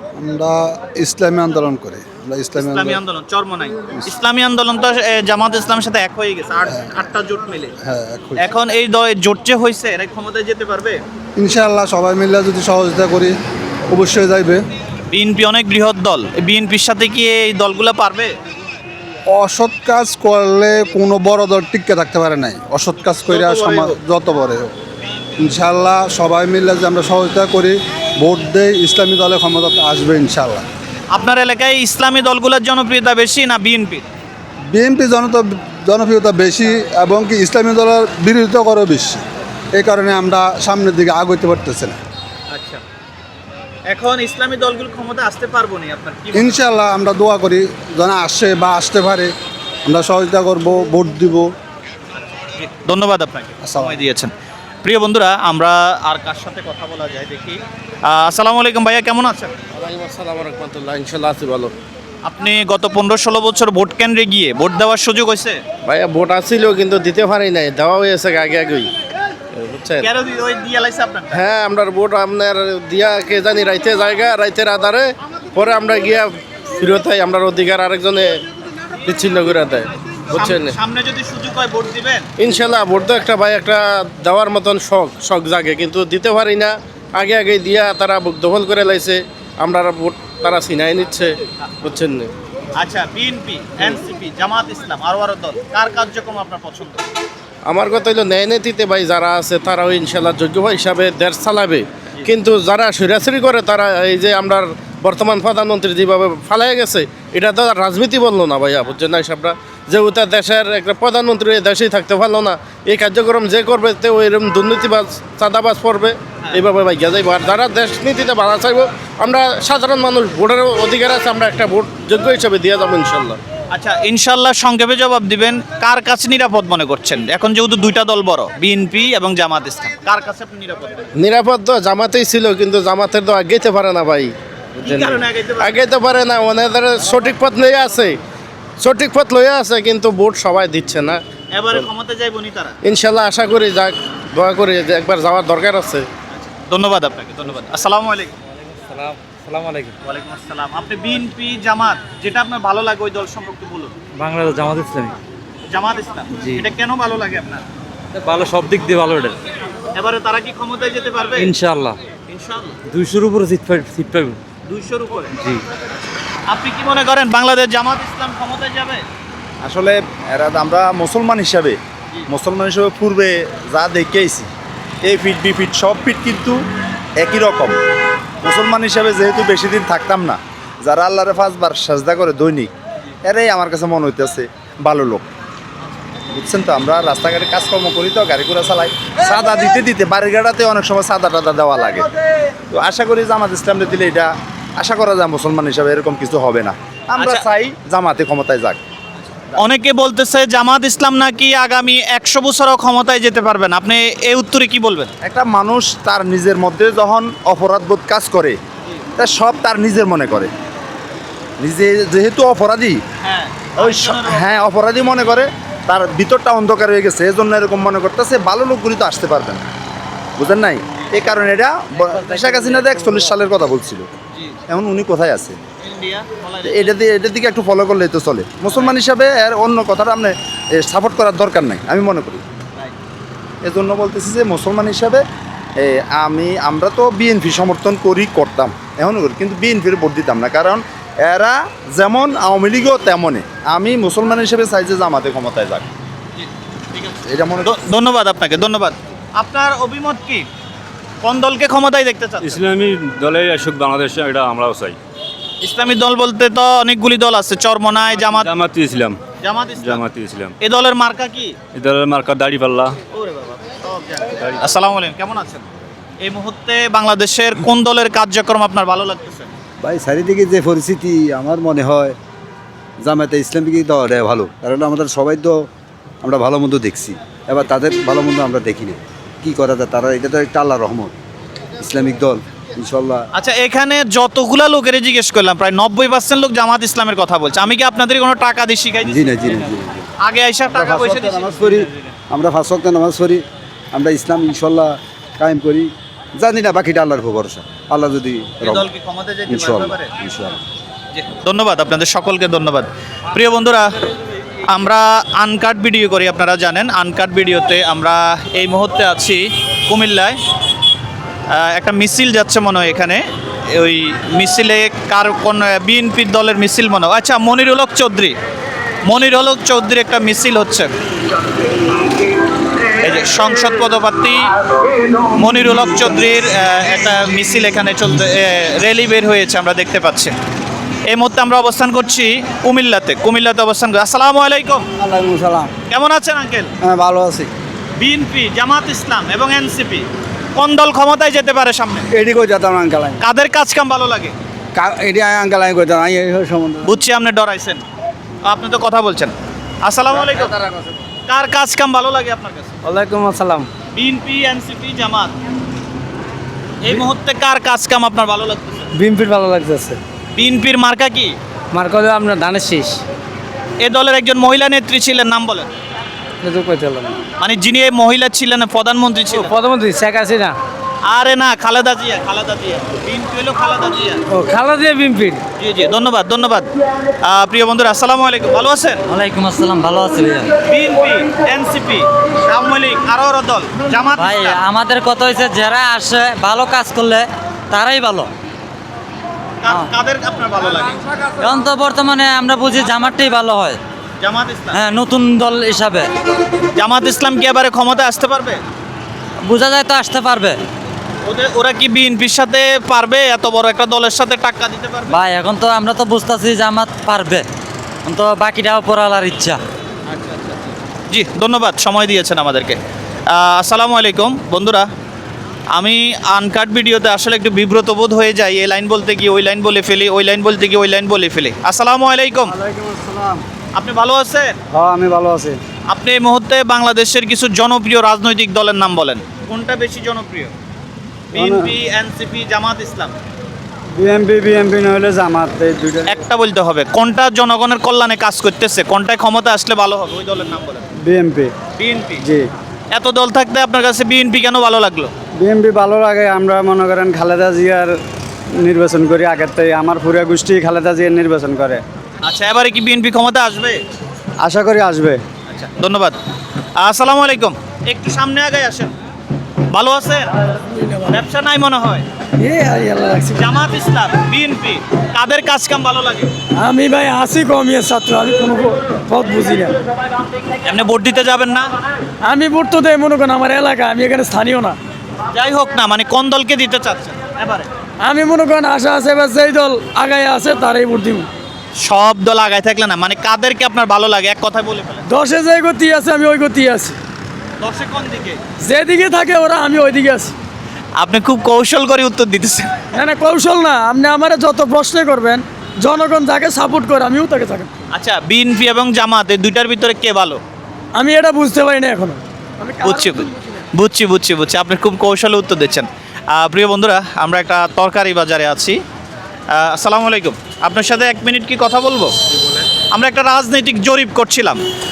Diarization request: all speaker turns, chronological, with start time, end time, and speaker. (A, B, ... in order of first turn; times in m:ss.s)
0:00.2-0:03.0 A
0:02.6-0:07.7 B
0:07.8-0:08.4 A
0:08.4-0:11.0 B
0:11.4-0:13.4 A
0:13.9-0:14.6 A
0:15.1-0:18.3 B
0:19.3-0:24.7 A
0:23.3-0:24.0 B
0:25.4-0:30.6 A
0:31.1-0:34.0 B
0:34.7-0:39.2 A
0:39.8-0:42.0 A
0:42.5-0:42.8 B
0:43.9-0:46.6 B
0:46.3-0:49.3 A
0:49.8-0:51.5 A
0:52.4-0:54.3 B
0:53.6-0:54.0 A
0:54.8-0:59.5 B
0:59.7-1:01.7 C
1:02.2-1:05.6 B
1:05.8-1:08.9 C
1:09.5-1:10.1 C
1:10.0-1:11.4 B
1:11.3-1:18.4 C
1:19.0-1:20.8 C
1:20.3-1:22.3 B
1:22.4-1:32.3 C
1:32.8-1:37.0 B
1:37.6-2:03.4 C
2:03.7-2:11.0 B
2:11.2-2:14.3 C
2:14.8-2:15.7 B
2:14.8-2:18.2 C
2:18.8-2:21.2 C
2:21.5-2:22.8 B
2:22.8-2:26.1 C
2:26.3-2:28.3 B
2:28.9-2:29.9 D
2:30.0-2:33.9 B
2:34.4-2:35.1 D
2:35.7-2:37.6 B
2:38.1-2:39.2 D
2:39.9-2:41.5 B
2:41.4-2:41.9 D
2:42.3-2:42.8 B
2:42.9-2:44.4 D
2:44.6-2:45.4 B
2:46.5-2:49.0 B
2:49.6-2:54.5 E
2:55.0-2:56.6 E
2:57.2-2:57.8 E
2:58.4-3:02.7 E
3:03.2-3:05.3 E
3:06.3-3:12.0 E
3:12.7-3:18.8 E
3:17.2-3:17.4 B
3:19.6-3:25.1 B
3:25.2-3:28.6 E
3:29.2-3:30.5 E
3:31.6-3:33.0 E
3:33.2-3:34.5 B
3:33.8-3:39.6 E
3:40.4-3:44.1 E
3:41.0-3:41.3 B
3:44.7-3:45.6 E
3:45.8-3:46.9 B
3:46.6-3:52.4 E
3:48.7-3:49.0 B
3:53.6-3:55.2 E
3:55.8-4:05.8 E
4:06.4-4:10.5 B
4:07.2-4:07.7 E
4:11.2-4:12.6 B
4:12.4-4:15.0 F
4:15.6-4:18.5 B
4:18.3-4:19.2 F
4:19.4-4:20.0 B
4:19.7-4:20.5 F
4:20.6-4:21.6 B
4:21.7-4:23.0 F
4:23.1-4:25.6 B
4:26.2-4:29.5 B
4:29.8-4:32.1 A
4:33.0-4:35.5 A
4:36.2-4:41.1 A
4:41.8-4:43.2 A
4:43.3-4:52.0 B
4:49.2-4:50.0 A
4:51.3-4:53.4 A
4:53.9-4:58.6 A
4:58.6-5:00.1 B
4:59.5-4:59.8 A
5:01.1-5:03.8 B
5:04.7-5:10.4 B
5:11.5-5:13.2 B
5:13.8-5:18.3 B
5:19.0-5:20.9 B
5:23.0-5:24.5 B
5:25.4-5:30.3 B
5:31.1-5:34.8 B
5:35.0-5:35.6 A
5:35.9-5:36.7 B
5:36.9-5:37.5 A
5:38.0-5:40.0 B
5:40.6-5:42.0 B
5:42.3-5:42.8 A
5:43.2-5:44.3 B
5:44.8-5:46.4 A
5:46.8-5:47.8 B
5:48.4-5:50.5 B
5:51.3-5:52.7 B
5:53.9-5:55.3 B
5:56.8-5:58.9 B
6:00.3-6:01.4 B
6:03.8-6:05.7 B
6:07.4-6:09.5 B
6:11.0-6:14.2 B
6:15.6-6:16.7 B
6:17.2-6:19.0 B
6:19.1-6:20.5 G
6:20.6-6:24.6 B
6:24.1-6:28.3 G
6:29.6-6:31.0 B
6:31.4-6:33.8 G
6:34.2-6:34.8 B
6:34.7-6:36.1 G
6:36.8-6:38.6 B
6:39.4-6:40.6 G
6:41.2-6:45.2 B
6:45.1-6:47.4 G
6:48.0-6:49.6 G
6:51.1-6:52.8 B
6:53.3-6:54.8 B
6:55.7-7:02.5 B
7:02.8-7:03.3 H
7:03.7-7:04.6 B
7:04.7-7:05.6 H
7:05.9-7:10.5 B
7:11.3-7:13.1 B
7:11.3-7:11.7 H
7:14.0-7:16.1 H
7:16.0-7:20.8 B
7:21.0-7:21.5 H
7:21.8-7:22.2 B
7:22.9-7:25.1 B
7:25.4-7:27.9 H
7:28.6-7:31.8 H
7:32.2-7:33.8 B
7:34.4-7:35.2 H
7:35.5-7:36.1 B
7:36.8-7:38.9 B
7:39.7-7:40.3 B
7:41.1-7:42.0 B
7:42.4-7:43.3 I
7:43.3-7:46.3 B
7:46.6-7:49.7 I
7:50.6-7:51.7 B
7:52.2-7:54.8 I
7:55.3-7:57.7 B
7:58.0-8:01.3 I
8:01.8-8:05.0 B
8:05.1-8:07.0 I
8:07.6-8:08.4 B
8:08.7-8:10.3 I
8:11.0-8:12.8 B
8:13.0-8:17.7 I
8:17.9-8:20.4 B
8:21.0-8:23.1 I
8:22.8-8:28.8 B
8:29.6-8:32.1 B
8:32.9-8:34.6 B